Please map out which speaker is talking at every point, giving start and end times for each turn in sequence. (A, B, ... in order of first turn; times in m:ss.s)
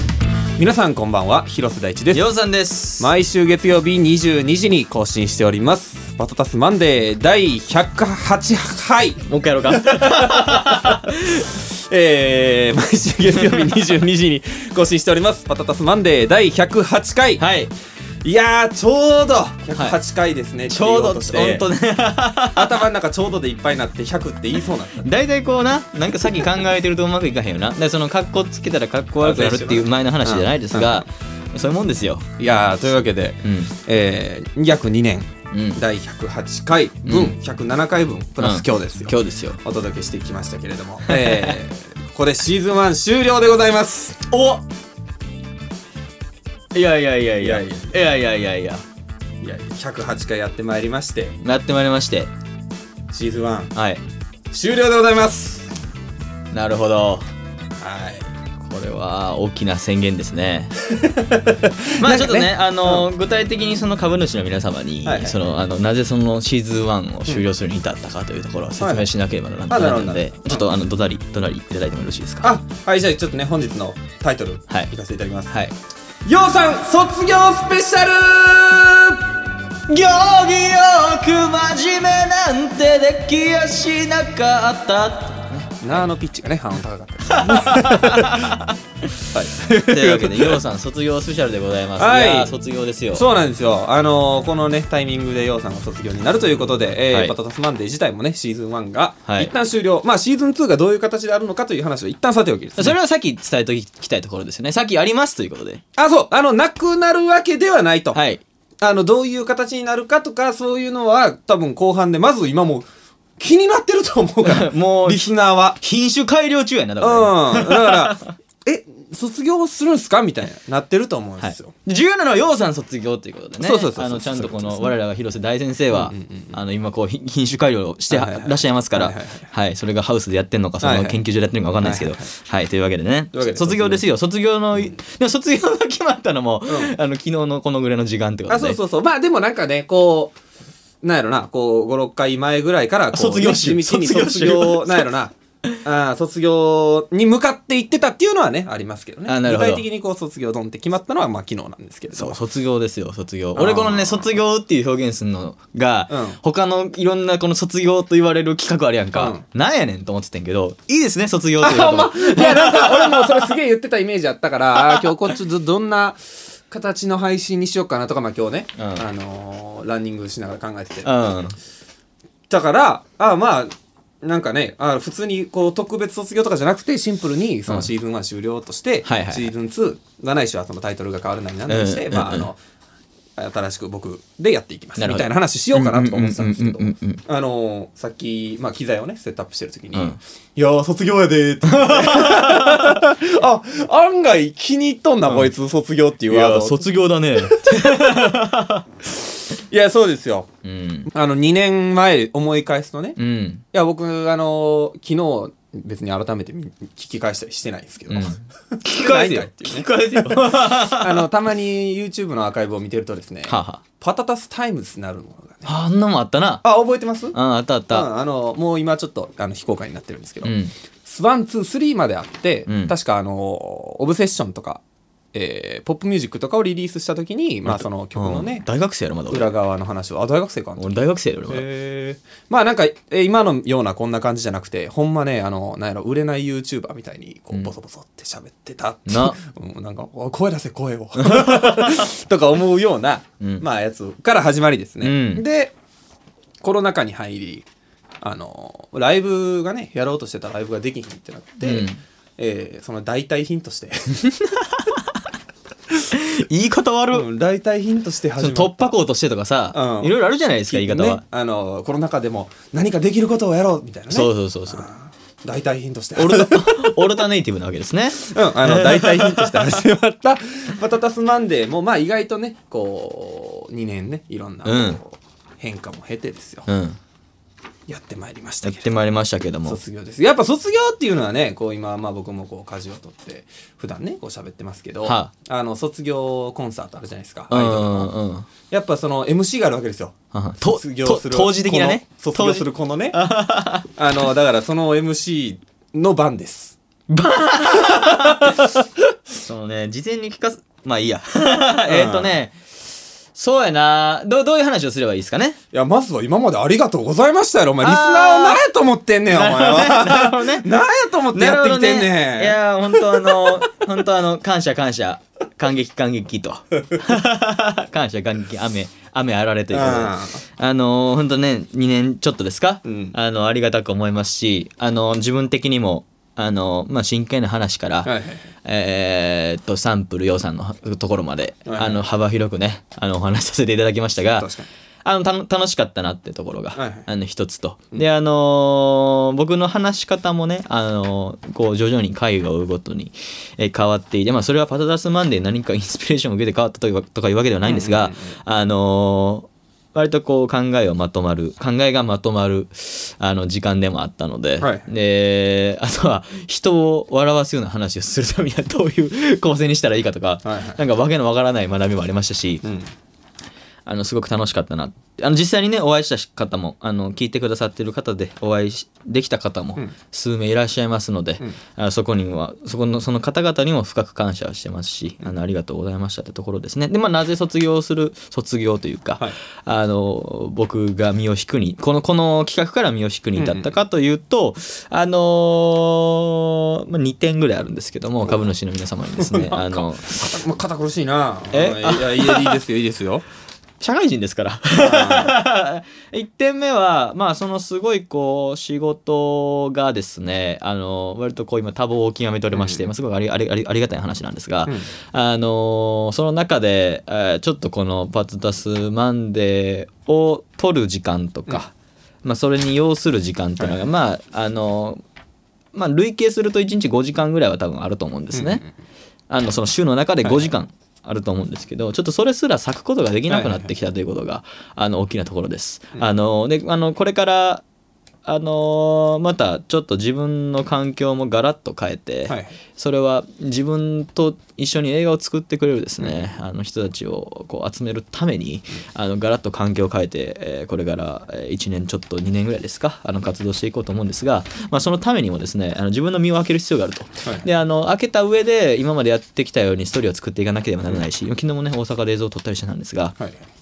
0:00.6-0:02.3 A
0:02.1-0:03.1 B
0:03.0-0:17.4 A
0:09.2-0:11.4 B
0:13.5-0:13.8 B
0:17.4-0:17.7 B
0:18.2-0:21.7 A
0:20.7-0:22.9 B
0:22.5-0:25.1 A
0:25.0-0:32.2 B
0:29.2-0:31.0 A
0:32.4-0:44.2 A
0:33.4-0:33.7 B
0:35.5-0:35.8 B
0:37.0-0:37.3 B
0:38.4-0:39.6 B
0:41.1-0:41.6 B
0:44.3-0:44.6 B
0:46.7-0:48.8 B
0:47.4-0:47.9 A
0:49.4-0:51.4 A
0:51.4-0:52.3 B
0:53.1-0:53.7 A
0:53.7-0:54.0 B
0:54.5-0:55.7 A
0:56.5-0:57.3 B
0:57.8-0:58.3 A
0:58.6-1:00.7 B
1:00.9-1:03.1 A
1:02.0-1:12.5 B
1:05.0-1:05.4 A
1:08.8-1:09.1 A
1:09.7-1:10.7 A
1:12.4-1:15.5 A
1:16.2-1:19.2 A
1:19.9-1:26.0 B
1:25.8-1:28.5 A
1:27.2-1:28.7 B
1:29.3-1:30.6 A
1:29.9-1:33.3 B
1:32.0-1:32.6 A
1:33.1-1:43.0 A
1:39.2-1:39.5 B
1:42.8-1:45.8 B
1:46.0-1:48.2 A
1:48.1-1:48.4 B
1:48.8-1:52.8 A
1:53.4-1:55.8 A
1:54.4-1:58.3 B
1:57.0-2:01.7 A
2:01.4-2:18.8 B
2:03.6-2:05.0 A
2:05.9-2:06.6 A
2:08.1-2:09.5 A
2:10.8-2:11.2 A
2:11.8-2:12.3 A
2:13.3-2:14.0 A
2:16.7-2:17.0 A
2:18.5-2:20.4 A
2:21.0-2:32.4 A
2:23.1-2:25.1 B
2:29.2-2:29.8 B
2:32.1-2:43.5 B
2:33.5-2:34.4 A
2:36.1-2:36.4 A
2:39.1-2:39.4 A
2:41.6-2:51.1 A
2:44.9-2:45.3 B
2:48.8-2:49.0 B
2:51.0-2:51.6 B
2:52.5-3:02.6 A
2:59.0-2:59.5 B
3:01.7-3:02.5 B
3:03.4-3:16.8 A
3:05.0-3:07.2 B
3:11.7-3:13.0 B
3:15.2-3:15.5 B
3:16.3-3:18.8 B
3:17.5-3:18.3 A
3:19.5-3:20.5 A
3:20.6-3:21.1 B
3:21.1-3:23.2 A
3:23.2-3:23.6 B
3:23.7-3:35.7 A
3:28.1-3:31.3 B
3:33.5-3:33.8 B
3:35.6-3:36.6 B
3:36.6-3:37.4 A
3:37.3-3:38.1 B
3:37.9-3:40.5 A
3:40.4-3:40.7 B
3:41.0-3:44.8 A
3:42.7-3:42.9 B
3:45.3-3:48.6 A
3:47.6-3:49.5 B
3:49.3-4:05.7 A
3:50.8-3:51.6 B
3:59.1-3:59.4 B
4:01.2-4:02.1 B
4:05.0-4:05.4 B
4:06.6-4:07.6 A
4:08.2-4:14.2 A
4:11.6-4:12.0 B
4:14.2-4:15.0 B
4:16.1-4:17.3 B
4:17.1-4:18.9 A
4:18.4-4:21.2 B
4:19.7-4:20.1 A
4:20.7-4:27.1 A
4:24.1-4:24.9 B
4:26.2-4:29.7 B
4:28.1-4:36.7 A
4:34.6-4:35.0 B
4:36.7-4:37.0 B
4:37.9-4:38.9 A
4:38.6-4:39.8 B
4:39.6-4:48.1 A
4:45.0-4:45.3 B
4:47.5-4:48.5 B
4:48.7-4:53.2 A
4:50.3-4:53.9 B
4:53.8-4:56.8 A
4:57.1-4:58.6 B
4:58.3-4:58.6 A
4:59.4-5:02.6 B
5:01.9-5:02.4 A
5:03.3-5:05.6 B
5:05.7-5:13.8 A
5:07.8-5:08.6 B
5:09.3-5:10.7 B
5:11.3-5:28.1 B
5:19.7-5:20.4 A
5:22.8-5:23.2 A
5:28.0-5:28.5 A
5:28.6-5:34.5 B
5:31.6-5:32.0 A
5:34.2-5:34.7 A
5:35.0-6:02.6 B
5:36.8-5:37.1 A
5:47.6-5:48.4 A
5:54.6-5:54.9 A
6:00.4-6:00.8 A
6:02.6-6:02.9 A
6:03.8-6:30.3 B
6:23.4-6:23.8 A
6:29.2-6:33.2 A
6:31.5-6:32.6 B
6:33.8-6:51.7 B
6:34.8-6:35.3 A
6:42.5-6:42.9 A
6:44.7-6:44.9 A
6:52.2-6:55.0 B
6:53.6-6:53.9 A
6:55.7-6:58.6 B
6:58.3-6:58.7 A
6:59.3-7:07.6 B
7:00.2-7:00.5 A
7:03.3-7:03.7 A
7:08.2-7:33.1 B
7:12.3-7:12.6 A
7:16.0-7:16.3 A
7:33.2-7:33.4 A